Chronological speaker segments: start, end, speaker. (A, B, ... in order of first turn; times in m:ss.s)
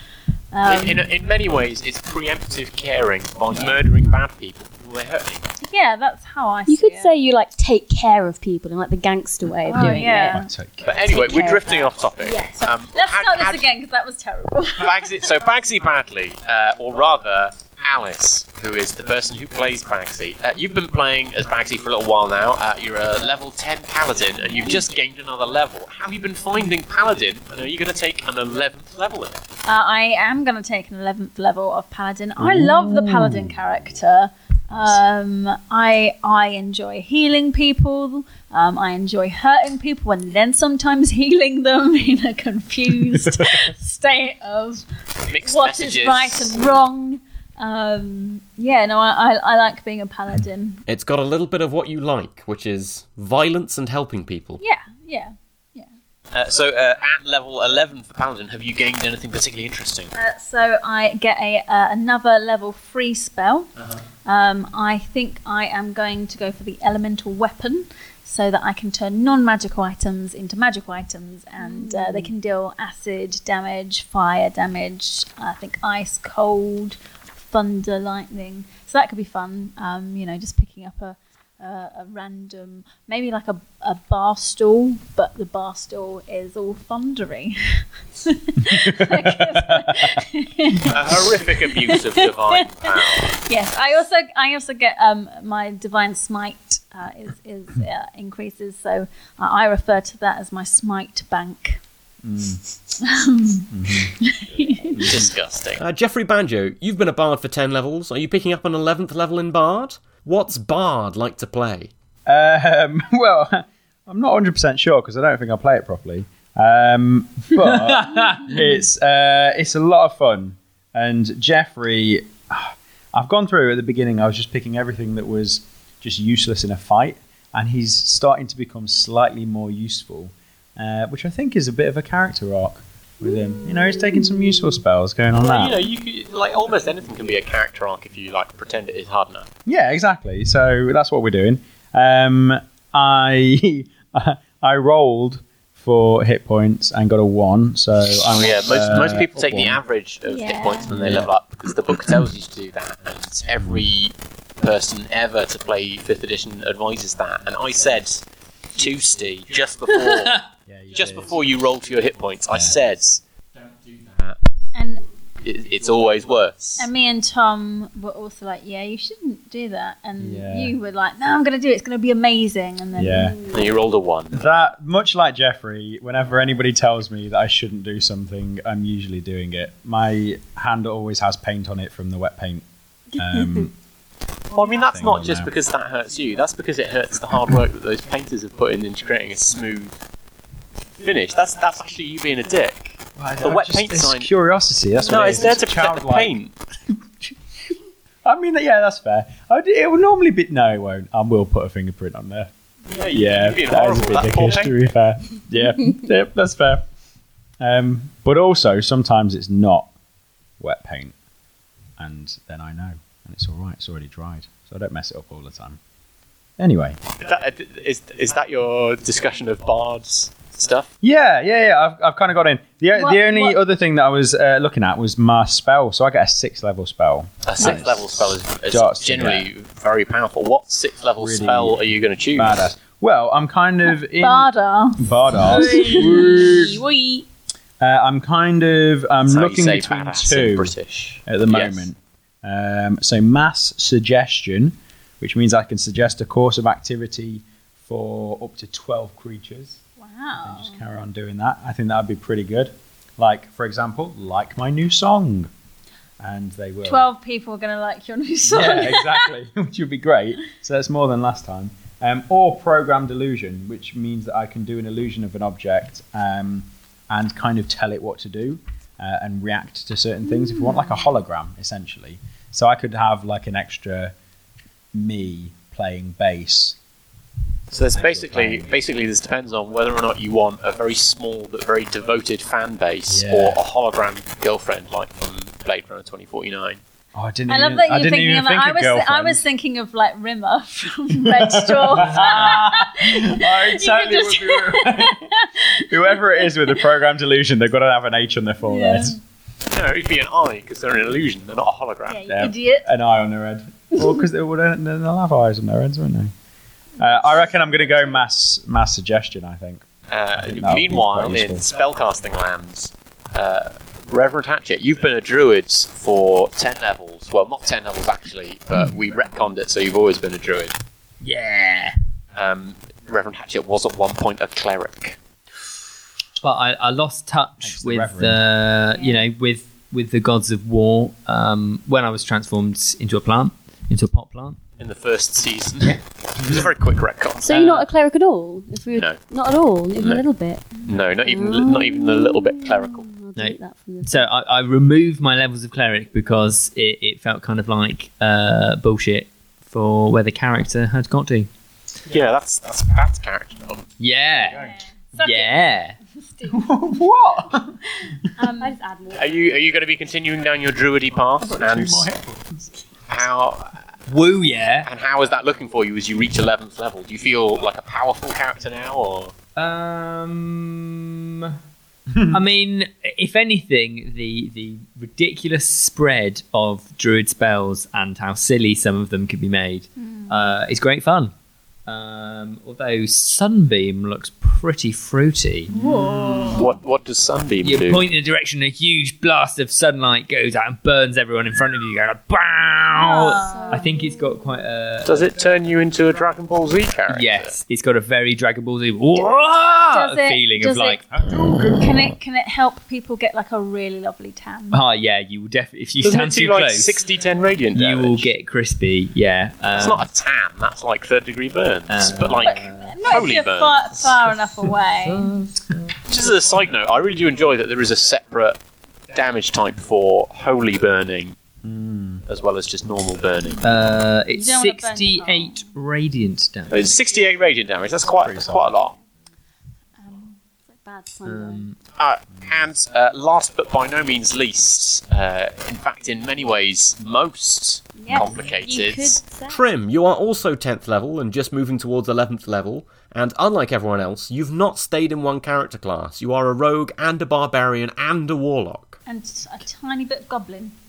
0:00.5-0:01.1 A
0:00.6-0:05.5 B
0:05.6-0:07.1 A
0:06.7-0:10.4 C
0:09.6-0:10.5 A
0:10.3-0:11.0 D
0:10.8-0:13.7 B
0:11.0-0:11.9 C
0:12.2-0:15.1 A
0:14.8-0:29.4 B
0:29.6-0:50.8 A
0:32.4-0:33.6 D
0:45.3-0:46.8 B
0:50.9-0:54.6 E
0:54.6-0:55.9 A
0:56.3-1:00.1 B
1:00.1-1:03.7 A
1:04.2-1:41.8 A
1:11.6-1:12.3 C
1:28.6-1:30.2 D
1:30.9-1:33.3 B
1:42.2-1:42.6 D
1:43.0-1:45.2 A
1:43.7-1:44.1 D
1:44.5-1:45.8 B
1:44.9-1:45.3 D
1:45.8-1:51.9 E
1:52.2-2:15.8 D
1:57.7-1:58.4 F
2:15.3-2:19.5 B
2:19.6-2:29.8 D
2:28.3-2:44.4 B
2:30.2-2:31.0 A
2:30.9-2:31.3 D
2:40.7-2:41.4 D
2:42.5-2:42.8 D
2:44.7-2:45.0 A
2:45.4-2:46.9 B
2:46.8-2:53.2 A
2:50.2-2:50.8 D
2:52.9-2:53.4 D
2:53.2-2:53.4 C
2:53.5-2:54.4 B
2:54.3-3:02.6 D
3:03.2-3:03.7 D
3:04.5-3:09.9 B
3:04.8-3:05.5 D
3:11.0-3:14.3 B
3:13.2-3:16.4 D
3:15.0-3:16.5 B
3:18.2-3:26.8 D
3:22.9-3:24.8 B
3:27.6-3:29.9 D
3:30.6-3:31.1 D
3:32.0-3:35.8 D
3:36.6-3:37.0 D
3:37.2-3:40.9 B
3:41.0-3:49.5 D
3:42.9-3:43.6 A
3:47.4-3:52.6 B
3:51.2-3:56.8 D
3:54.2-3:56.3 A
3:55.4-3:57.3 C
3:57.8-4:00.7 D
3:59.2-4:01.9 B
4:01.2-4:09.8 D
4:10.0-4:10.8 A
4:10.4-4:15.5 D
4:16.2-4:17.1 D
4:16.8-4:19.3 A
4:18.4-4:34.1 D
4:30.4-4:30.8 A
4:34.9-4:36.8 D
4:37.7-4:46.8 B
4:37.9-4:38.7 D
4:43.1-4:43.6 D
4:47.1-4:49.4 D
4:47.5-4:55.5 A
4:51.2-4:59.2 D
4:56.0-4:56.7 A
4:58.6-4:59.1 A
4:59.7-5:02.4 B
5:02.1-5:02.9 A
5:02.3-5:06.3 D
5:07.0-5:09.8 D
5:10.1-5:20.8 B
5:10.4-5:11.6 D
5:21.2-5:21.9 F
5:22.3-5:25.2 B
5:26.4-5:34.6 F
5:27.6-5:28.5 D
5:29.0-5:29.2 C
5:34.8-5:37.6 B
5:37.4-5:44.3 C
5:37.6-5:37.8 F
5:39.0-5:39.2 B
5:40.0-5:40.2 B
5:40.8-5:43.1 B
5:43.4-5:51.5 F
5:52.1-5:53.8 B
5:54.0-5:54.6 F
5:54.3-5:56.8 A
5:55.2-5:56.0 F
5:56.4-5:58.4 D
5:58.4-5:58.8 A
5:58.6-5:59.6 C
5:59.1-6:02.1 B
6:01.4-6:02.7 D
6:03.1-6:03.8 B
6:04.1-6:04.9 F
6:04.8-6:09.3 B
6:09.6-6:11.5 F
6:12.1-6:12.4 D
6:12.3-6:21.3 F
6:20.0-6:20.6 A
6:21.9-6:25.7 F
6:25.7-6:26.7 A
6:26.5-6:28.1 B
6:27.6-6:35.3 F
6:32.9-6:33.9 A
6:33.4-6:34.4 C
6:35.0-6:37.5 B
6:37.1-6:41.1 F
6:39.8-6:41.0 A
6:41.1-6:41.8 D
6:41.7-6:44.8 A
6:44.7-6:47.0 F
6:46.0-6:48.3 B
6:47.7-6:50.0 F
6:49.7-6:54.2 B
6:51.9-6:52.9 F
6:52.4-6:55.4 A
6:55.1-6:55.6 F
6:56.1-6:58.6 B
6:59.1-7:01.4 B
7:01.6-7:02.2 D
7:02.3-7:03.6 B
7:03.6-7:06.8 F
7:04.3-7:05.7 A
7:06.7-7:08.9 B
7:08.2-7:08.8 D
7:10.0-7:10.4 A
7:10.8-7:11.7 C
7:11.3-7:11.7 F
7:12.0-7:19.2 B
7:18.0-7:19.6 C
7:19.5-7:29.0 E
7:29.0-7:30.7 A